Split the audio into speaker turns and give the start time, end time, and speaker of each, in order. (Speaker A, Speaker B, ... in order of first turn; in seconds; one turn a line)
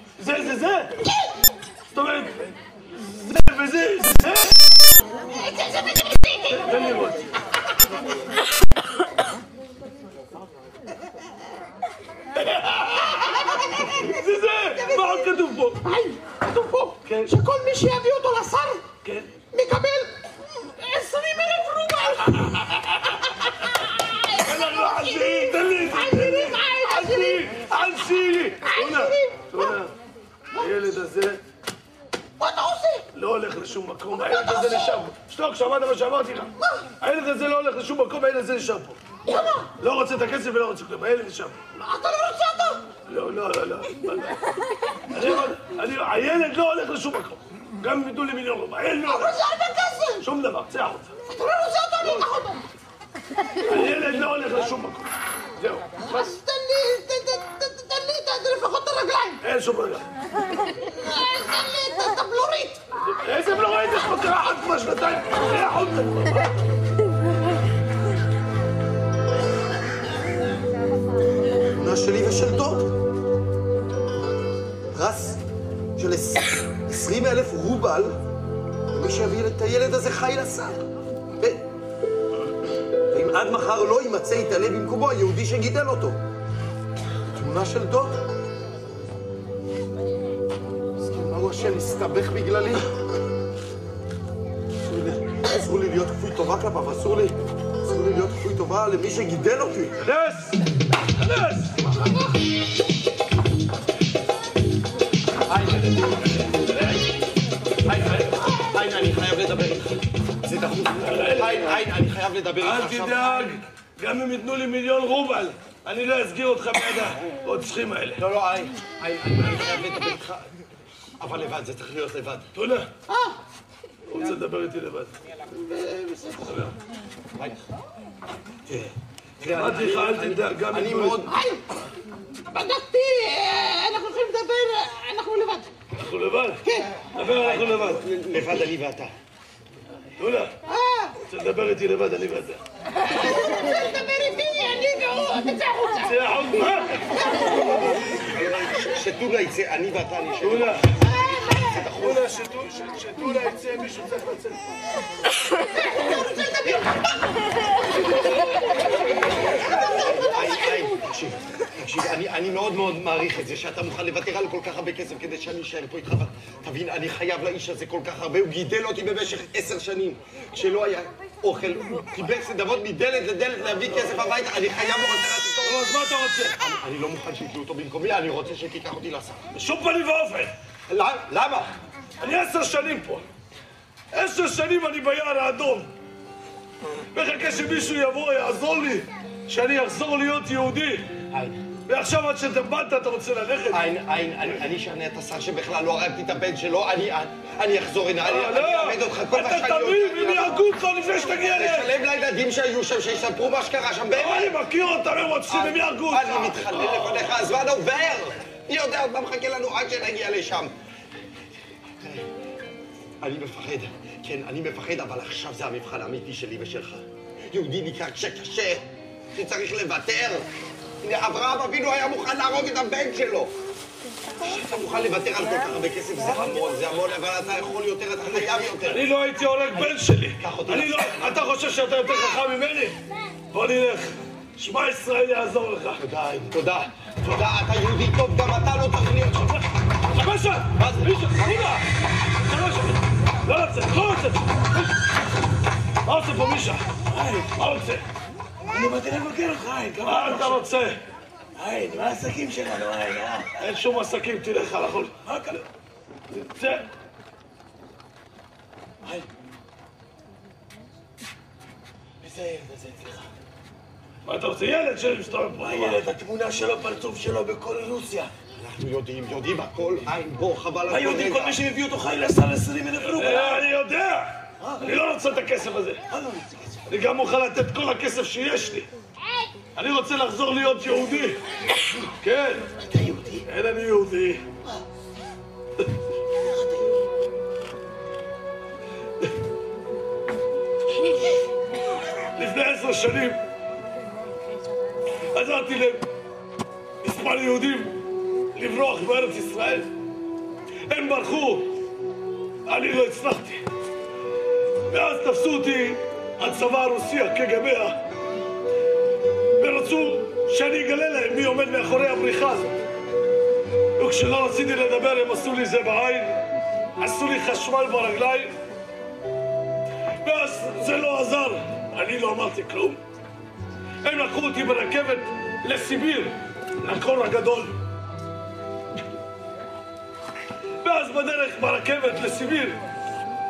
Speaker A: 0.2-0.9
Speaker A: 1.9-2.4
Speaker A: 3.0-4.5
Speaker B: 5.3-7.0
Speaker A: 6.5-7.3
Speaker A: 12.4-15.8
Speaker B: 13.0-18.8
Speaker A: 17.1-17.4
Speaker A: 19.0-19.3
Speaker B: 19.5-27.6
Speaker A: 24.4-29.9
Speaker B: 28.6-29.7
Speaker A: 30.6-31.4
Speaker B: 32.4-33.0
Speaker A: 33.1-39.0
Speaker B: 34.1-35.1
Speaker B: 39.2-39.7
Speaker A: 39.8-41.6
Speaker B: 41.8-42.9
Speaker A: 43.0-44.4
Speaker A: 45.1-49.4
Speaker B: 49.0-50.2
Speaker A: 50.2-51.1
Speaker B: 51.3-52.6
Speaker A: 52.0-52.3
Speaker A: 53.6-56.0
Speaker B: 56.0-59.4
Speaker A: 59.4-60.1
Speaker B: 60.9-62.8
Speaker A: 62.9-66.7
Speaker C: 71.7-72.9
Speaker C: 74.9-75.4
Speaker C: 76.0-78.2
Speaker C: 78.9-80.8
Speaker C: 83.1-86.2
Speaker C: 87.3-88.2
Speaker C: 91.0-92.9
Speaker C: 94.9-100.0
Speaker A: 100.0-101.9
Speaker C: 107.8-113.3
Speaker A: 111.0-111.8
Speaker A: 112.6-118.2
Speaker C: 118.2-120.5
Speaker C: 121.2-122.5
Speaker A: 122.5-122.9
Speaker B: 123.1-123.4
Speaker A: 124.1-125.1
Speaker B: 125.7-126.4
Speaker A: 126.5-126.7
Speaker C: 128.7-131.4
Speaker A: 129.4-131.3
Speaker B: 131.3-131.6
Speaker B: 132.5-135.7
Speaker A: 135.9-136.6
Speaker B: 136.6-137.0
Speaker A: 137.1-138.0
Speaker C: 137.2-139.1
Speaker A: 140.2-140.5
Speaker B: 140.7-141.2
Speaker A: 141.2-142.6
Speaker B: 143.0-146.2
Speaker A: 146.0-147.0
Speaker B: 147.0-148.2
Speaker C: 148.2-152.3
Speaker A: 150.4-150.9
Speaker B: 151.2-151.8
Speaker A: 152.0-154.6
Speaker B: 155.6-156.9
Speaker B: 159.4-160.7
Speaker C: 159.8-175.9
Speaker A: 175.6-176.6
Speaker C: 176.6-179.4
Speaker A: 179.5-180.5
Speaker C: 180.9-181.7
Speaker A: 182.2-183.2
Speaker A: 184.1-185.9
Speaker A: 187.1-191.1
Speaker C: 191.3-191.6
Speaker A: 191.9-193.9
Speaker C: 193.7-200.6
Speaker A: 198.2-201.9
Speaker C: 201.4-204.6
Speaker A: 204.1-207.2
Speaker C: 205.5-210.7
Speaker C: 212.0-212.2
Speaker C: 213.2-220.4
Speaker C: 221.0-223.5
Speaker C: 224.4-229.1
Speaker A: 228.8-233.0
Speaker C: 229.7-231.4
Speaker A: 233.5-236.0
Speaker C: 236.0-239.6
Speaker A: 240.1-241.8
Speaker C: 240.8-241.4
Speaker A: 242.4-244.8
Speaker A: 246.0-246.8
Speaker D: 247.1-247.5
Speaker A: 247.6-248.0
Speaker D: 248.7-250.6
Speaker A: 250.0-251.0
Speaker D: 251.6-253.5
Speaker A: 253.6-255.2
Speaker D: 255.2-255.6
Speaker A: 256.3-256.9
Speaker D: 262.2-263.3
Speaker A: 264.2-266.0
Speaker D: 265.6-268.3
Speaker C: 268.6-271.6
Speaker D: 270.9-273.7
Speaker A: 273.1-276.0
Speaker D: 274.6-274.9
Speaker D: 276.1-276.8
Speaker A: 276.9-278.9
Speaker A: 279.8-281.4
Speaker A: 282.2-282.6
Speaker D: 282.8-283.4
Speaker A: 283.4-284.4
Speaker D: 286.4-286.9
Speaker A: 292.4-293.4
Speaker A: 295.3-296.0
Speaker A: 297.0-298.0
Speaker A: 298.5-299.9
Speaker A: 300.9-301.7
Speaker A: 302.7-303.6
Speaker A: 304.9-308.0
Speaker A: 309.6-312.7
Speaker A: 314.0-316.4
Speaker A: 317.0-318.5
Speaker A: 320.2-323.0
Speaker A: 324.0-327.8
Speaker A: 330.8-332.8